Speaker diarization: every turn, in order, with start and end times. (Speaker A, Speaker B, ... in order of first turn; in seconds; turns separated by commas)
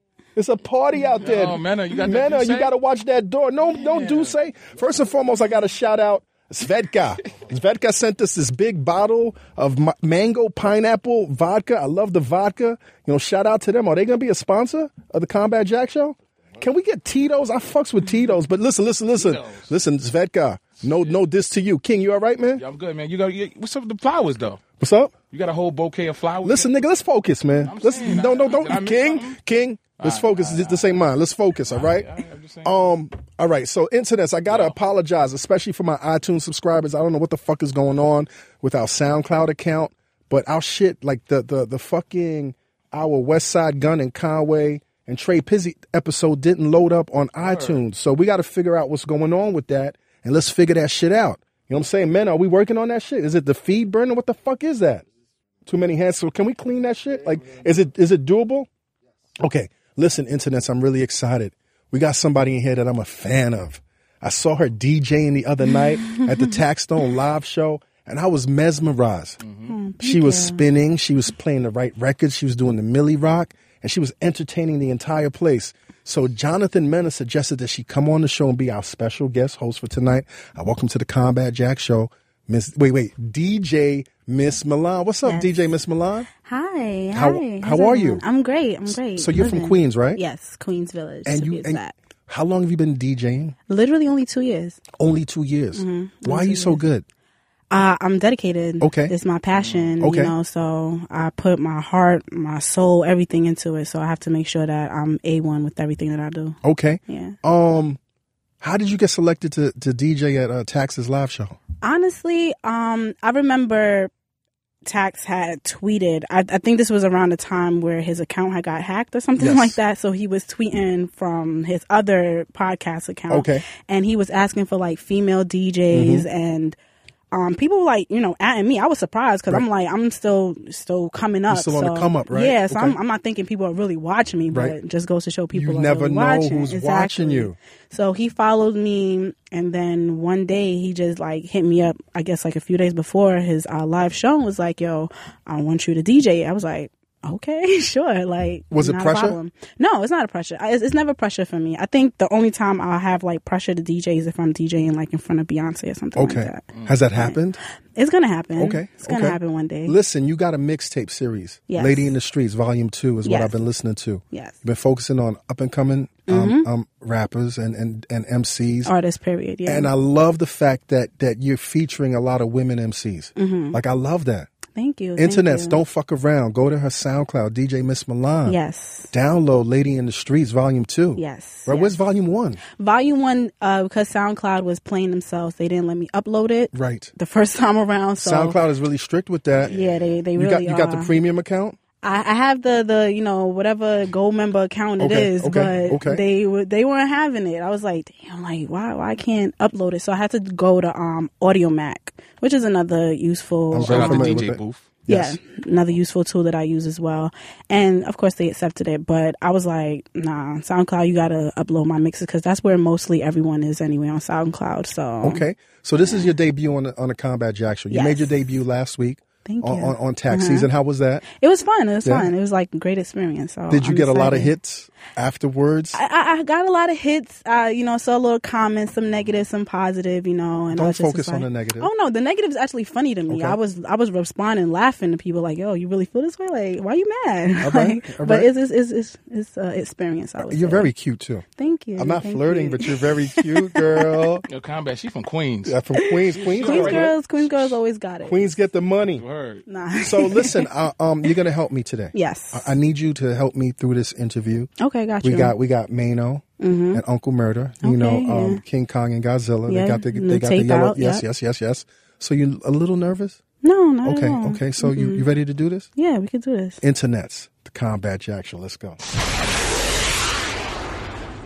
Speaker A: 0.3-22.6, Speaker B: 1.2-2.7, Speaker B: 3.7-4.3, Speaker B: 19.1-19.7, Speaker B: 20.8-21.2, Speaker B: 22.6-24.6, Speaker A: 24.8-25.1, Speaker B: 25.3-26.7, Speaker A: 26.4-32.1, Speaker B: 27.6-29.4, Speaker B: 30.0-31.0, Speaker B: 31.7-32.7, Speaker A: 32.6-55.0, Speaker B: 34.5-34.7, Speaker B: 47.4-47.8, Speaker A: 55.6-58.7, Speaker A: 59.4-69.4, Speaker B: 69.4-69.8, Speaker C: 69.7-70.6, Speaker A: 70.0-86.3, Speaker C: 86.4-91.9, Speaker A: 87.1-88.2, Speaker A: 88.9-90.2, Speaker A: 91.2-93.5, Speaker C: 93.7-94.8, Speaker A: 95.0-97.0, Speaker C: 95.7-96.8, Speaker C: 97.7-106.6, Speaker A: 98.8-99.1, Speaker B: 99.5-99.9, Speaker A: 100.0-100.3, Speaker A: 106.6-108.0, Speaker C: 107.1-107.3, Speaker A: 108.6-111.6, Speaker C: 111.8-114.1, Speaker C: 114.8-126.8, Speaker A: 119.4-119.8, Speaker A: 123.3-123.6, Speaker A: 125.9-126.2, Speaker C: 127.3-157.4, Speaker A: 131.5-132.9, Speaker A: 134.5-134.8, Speaker A: 135.5-137.6, Speaker A: 148.7-149.4, Speaker A: 156.2-157.6, Speaker B: 156.7-157.0, Speaker C: 157.9-159.9, Speaker A: 158.6-168.9, Speaker C: 161.7-162.1, Speaker C: 163.2-163.6, Speaker C: 164.3-164.6, Speaker C: 166.3-166.7, Speaker C: 168.8-169.9, Speaker A: 169.7-174.5, Speaker C: 173.3-173.8, Speaker C: 174.7-175.8, Speaker A: 175.2-178.6, Speaker C: 178.4-179.1, Speaker A: 179.1-182.6, Speaker C: 181.2-181.9, Speaker C: 182.8-188.6, Speaker A: 186.7-187.1, Speaker A: 188.2-189.8, Speaker B: 189.6-190.2, Speaker C: 189.7-191.1, Speaker A: 190.3-191.8, Speaker C: 192.0-204.4, Speaker A: 195.0-196.2, Speaker A: 203.7-205.4, Speaker B: 203.8-204.9, Speaker C: 205.1-215.4, Speaker A: 215.2-221.2, Speaker C: 216.0-216.3, Speaker C: 217.9-218.3, Speaker C: 219.4-220.7, Speaker C: 221.4-224.5, Speaker A: 222.0-222.3, Speaker A: 223.7-226.0, Speaker C: 225.9-240.9, Speaker A: 230.7-231.9, Speaker A: 233.3-233.6, Speaker A: 237.6-238.5, Speaker A: 240.5-241.4, Speaker C: 241.6-244.1, Speaker A: 242.0-244.4, Speaker B: 244.5-247.7, Speaker A: 245.6-247.1, Speaker C: 246.0-248.5, Speaker A: 248.2-249.2, Speaker B: 249.1-249.7, Speaker C: 249.7-250.7, Speaker A: 250.0-254.7, Speaker C: 252.1-252.7, Speaker C: 254.8-255.5, Speaker A: 255.2-263.4, Speaker C: 256.6-257.0, Speaker C: 257.8-258.6, Speaker C: 259.7-261.2, Speaker C: 263.6-265.3, Speaker A: 264.0-265.9, Speaker C: 265.9-266.8, Speaker A: 266.8-269.0